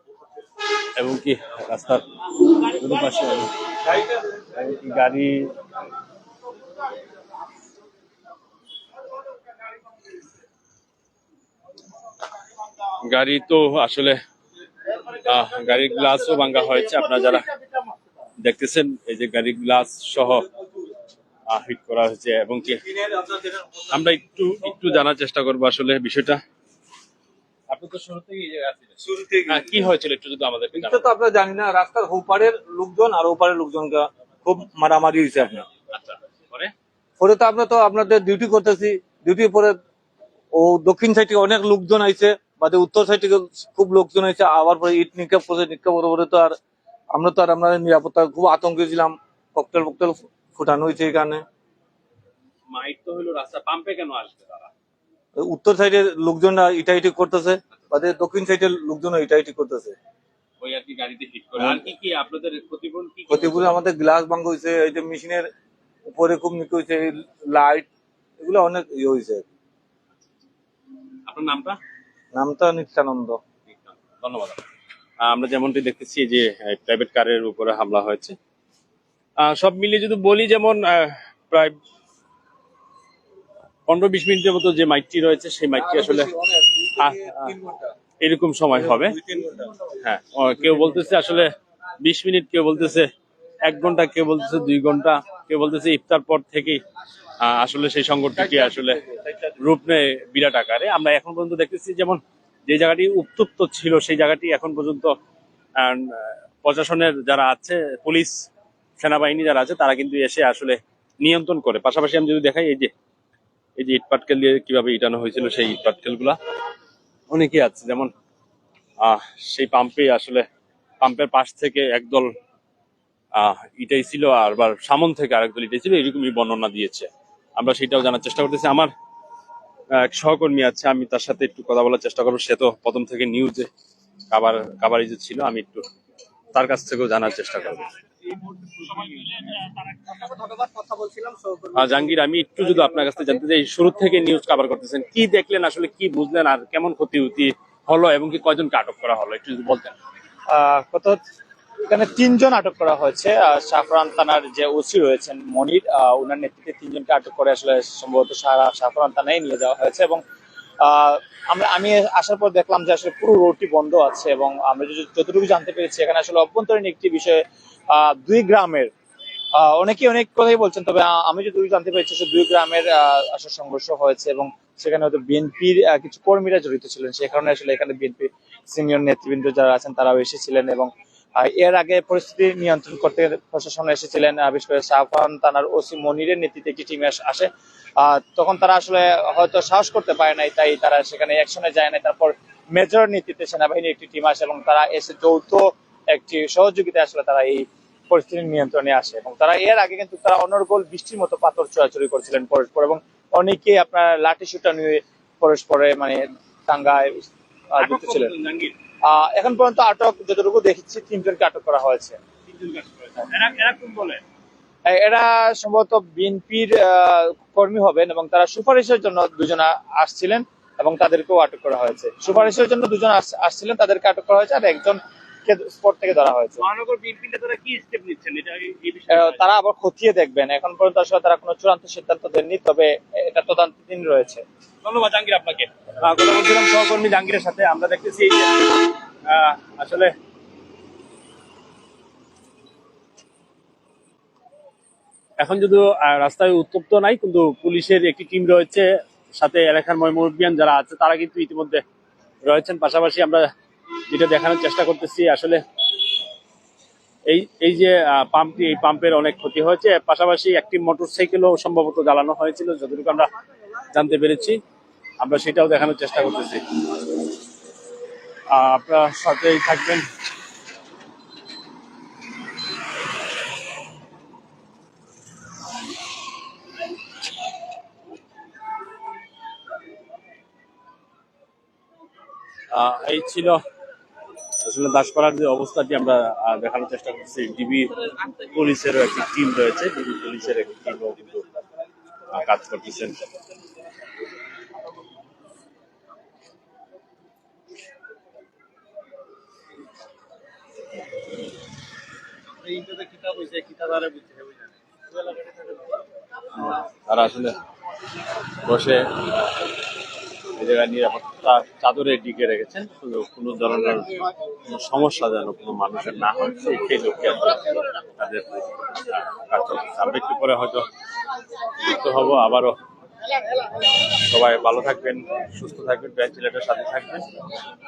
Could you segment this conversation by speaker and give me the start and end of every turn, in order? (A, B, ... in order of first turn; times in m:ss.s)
0:01.0-0:03.5 A
0:04.5-0:05.6 A
0:13.0-0:14.2 A
0:15.2-0:17.5 A
0:18.4-0:20.5 A
0:21.5-0:22.8 A
0:23.9-0:26.4 A
0:27.7-0:31.1 A
0:29.0-0:29.8 B
0:30.7-0:35.7 B
0:35.9-0:36.7 A
0:37.2-0:39.8 B
0:40.5-0:46.6 B
0:47.1-0:51.4 B
0:52.7-0:54.7 A
0:55.4-1:00.0 B
1:00.6-1:03.8 A
1:01.6-1:01.9 B
1:03.3-1:05.5 B
1:06.1-1:07.9 B
1:08.4-1:09.5 B
1:11.3-1:11.8 A
1:12.3-1:13.4 B
1:13.7-1:14.6 A
1:15.2-1:18.4 A
1:19.4-1:21.8 A
1:23.9-1:26.3 A
1:25.8-1:27.9 B
1:27.0-1:27.6 A
1:28.2-1:29.2 A
1:28.7-1:29.9 B
1:30.0-1:33.1 A
1:30.6-1:31.0 B
1:33.6-1:36.8 A
1:37.4-1:39.0 A
1:38.4-1:39.5 B
1:39.6-1:45.2 A
1:45.8-1:48.5 A
1:49.0-1:52.9 A
1:53.8-1:56.4 A
1:57.3-1:58.1 A
1:59.0-2:00.5 A
2:01.0-2:02.3 A
2:03.4-2:08.9 A
2:10.0-2:13.7 A
2:14.3-2:15.9 A
2:16.5-2:17.9 A
2:21.7-2:30.0 A
2:30.5-2:31.2 C
2:31.9-2:40.2 C
2:40.8-2:48.9 C
2:49.6-3:28.3 C
3:27.8-3:28.8 A
3:29.0-3:32.2 C
3:32.5-3:34.2 A
3:34.9-3:46.6 C
3:46.6-3:49.5 A
3:49.1-3:54.4 C
3:54.8-4:00.2 A
4:05.4-4:11.8 A
4:12.4-4:13.5 A
4:14.1-4:15.6 A
4:17.3-4:23.3 A
4:23.9-4:24.6 A
4:25.2-4:26.6 A
4:28.5-4:30.1 A
4:42.7-4:43.6 A
4:44.6-4:51.5 A
4:52.3-4:53.2 A
5:03.0-5:04.0 A
5:06.6-5:07.6 A
5:08.6-5:09.6 A
5:10.6-5:20.9 A
5:21.8-5:22.8 A
5:24.2-5:27.3 A